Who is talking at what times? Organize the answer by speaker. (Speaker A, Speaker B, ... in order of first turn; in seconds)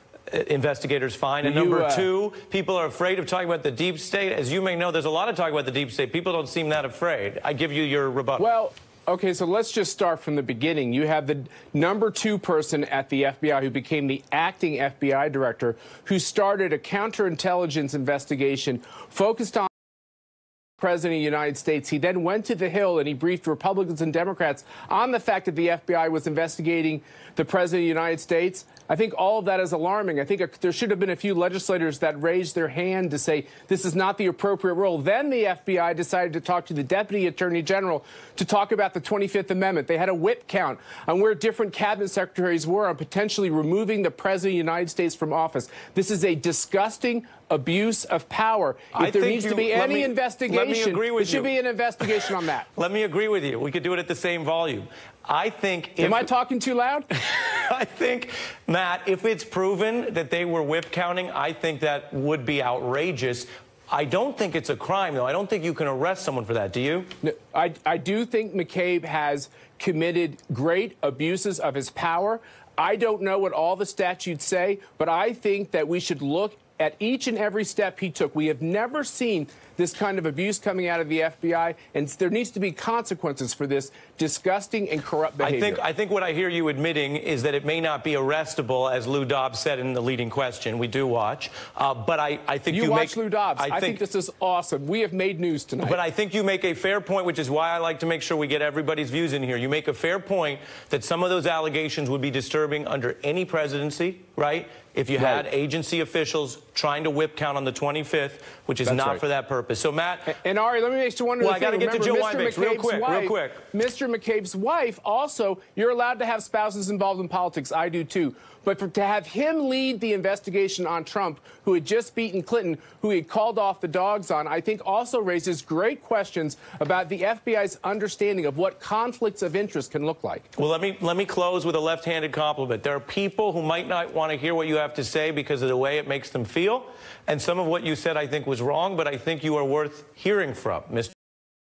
Speaker A: 0.3-8.5, 48.9-56.3, 57.1-67.1, 85.4-94.0, 95.8-110.3, 111.4-113.6, 130.6-141.1
Speaker B: 1.4-2.1, 8.4-19.7, 20.8-52.7, 56.0-57.1, 67.2-85.8, 92.7-96.0, 105.2-105.4, 108.8-109.2, 110.3-130.5